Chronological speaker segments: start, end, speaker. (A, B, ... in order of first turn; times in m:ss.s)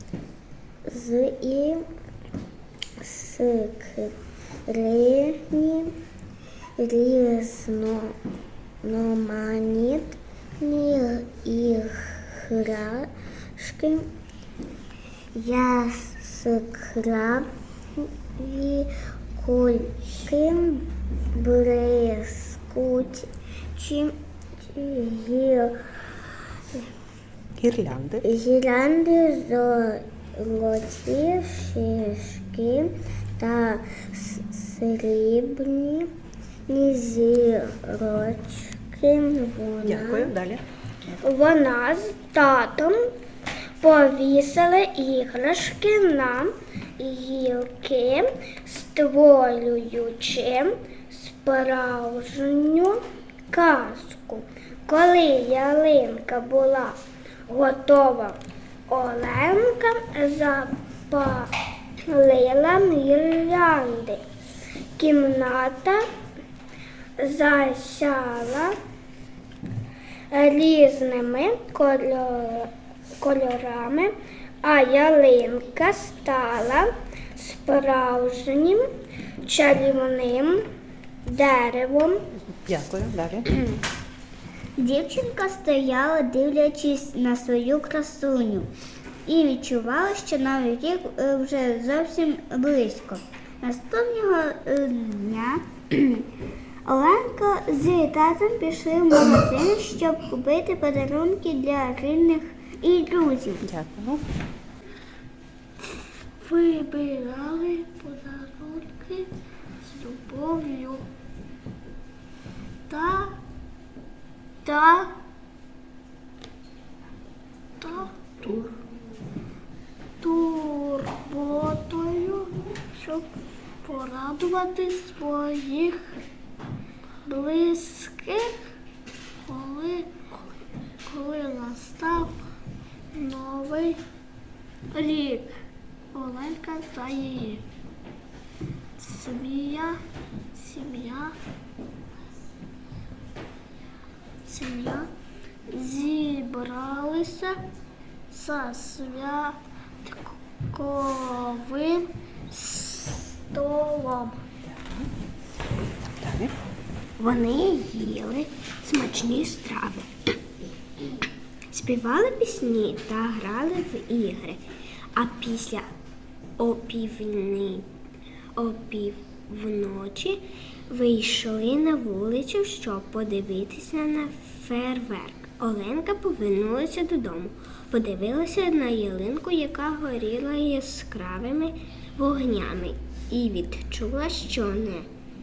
0:00.8-0:01.9 A
0:03.0-0:04.2 A
0:04.7-0:06.0 A
0:06.8-0:08.2 A
0:08.8-0:14.1 A
0:15.3-0:25.8 A
0:27.6-0:28.2 B
0:28.2-0:36.1 A
0:36.7-0:40.3 A
0:39.8-0:40.6 B
0:41.2-0:43.1 A
0:43.8-0:57.0 A
0:57.5-0:58.4 A
0:58.9-1:01.5 A
1:02.1-1:04.2 A
1:05.0-1:06.0 A
1:07.2-1:08.8 A
1:10.3-1:14.1 A
1:14.6-1:18.8 A
1:19.4-1:20.6 A
1:21.2-1:22.2 A
1:22.6-1:23.5 B
1:24.8-1:28.7 A
1:29.2-1:36.2 A
1:36.8-1:43.6 A
1:43.6-1:44.2 B
1:46.4-1:49.3 A
1:49.8-1:51.0 A
1:52.9-1:53.4 A
1:54.6-1:55.1 A
1:57.8-1:58.8 A
2:00.2-2:03.2 A
2:03.8-2:06.0 A
2:07.2-2:08.5 A
2:09.5-2:10.1 A
2:11.1-2:12.3 A
2:13.1-2:14.0 A
2:14.9-2:15.5 A
2:16.1-2:17.6 A
2:19.0-2:20.0 A
2:20.6-2:21.4 A
2:24.5-2:25.1 A
2:25.7-2:27.6 A
2:28.3-2:34.4 A
2:34.7-2:35.1 B
2:36.2-2:36.5 B
2:37.2-2:40.1 A
2:41.7-2:44.6 A
2:45.1-2:45.9 A
2:46.6-2:47.9 A
2:48.6-3:05.1 A